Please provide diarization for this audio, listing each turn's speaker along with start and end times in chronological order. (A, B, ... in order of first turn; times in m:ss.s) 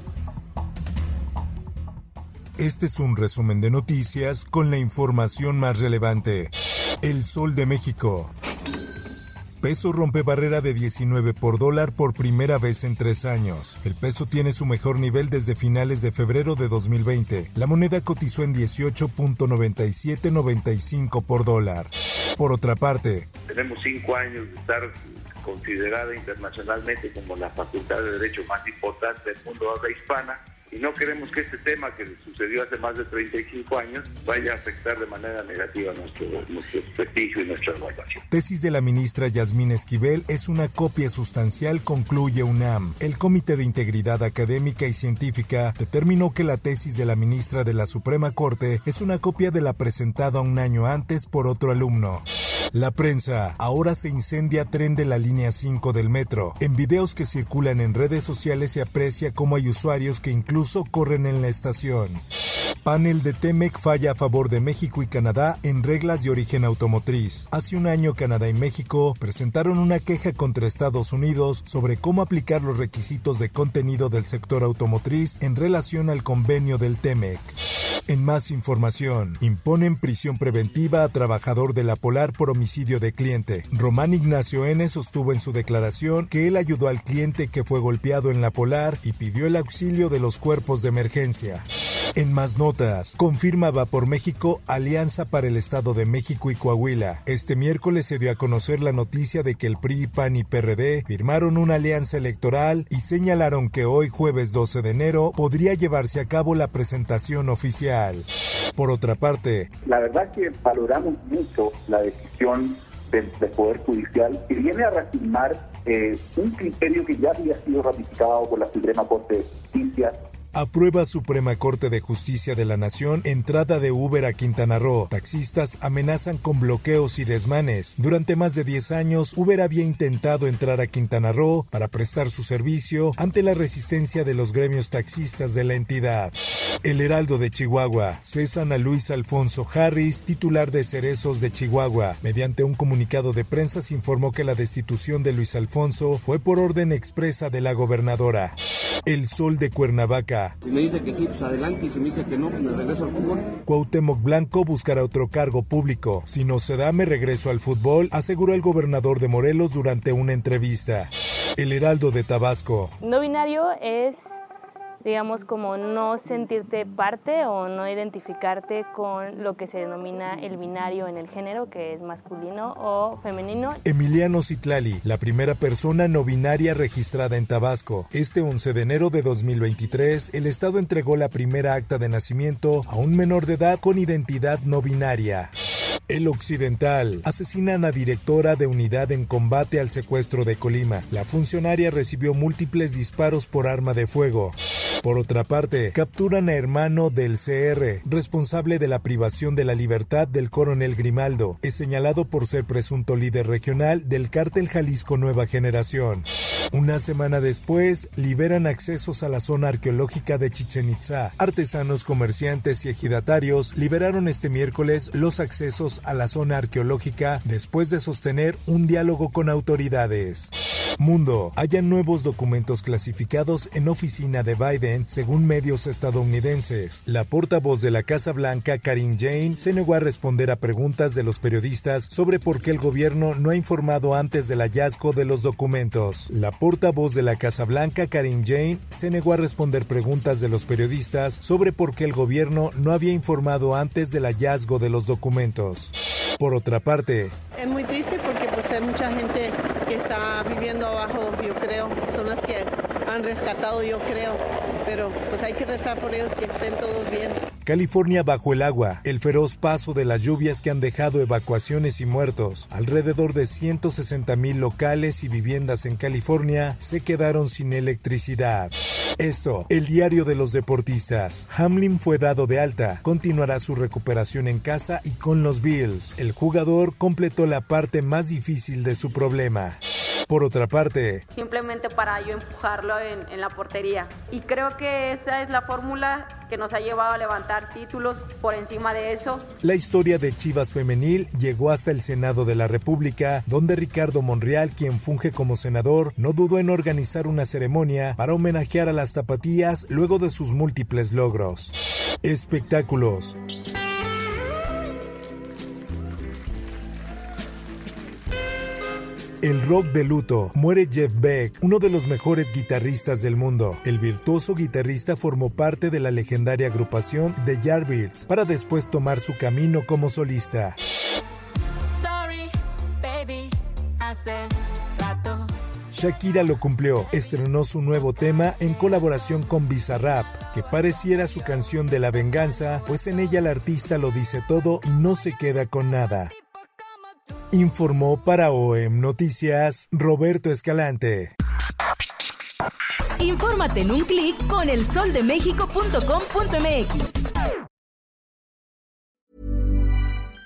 0:02.6-0:08.3 A
0:09.6-0:23.3 A
0:23.5-0:38.2 B
0:38.3-1:02.2 A
1:02.8-1:17.5 A
1:18.1-1:49.7 A
1:49.9-2:00.2 C
2:00.5-2:30.6 A
2:30.7-2:33.5 D
2:33.7-2:43.0 A
2:43.0-2:44.4 E
2:45.0-2:53.8 E
2:53.8-3:05.5 A
3:06.1-4:07.4 A
4:07.6-4:17.4 F
4:17.7-4:41.2 A
4:41.3-4:49.5 G
4:49.6-5:03.4 A
5:09.4-5:20.8 A
5:22.0-5:25.5 H
5:25.9-5:36.3 A
5:37.5-5:41.3 A
5:43.2-5:47.2 H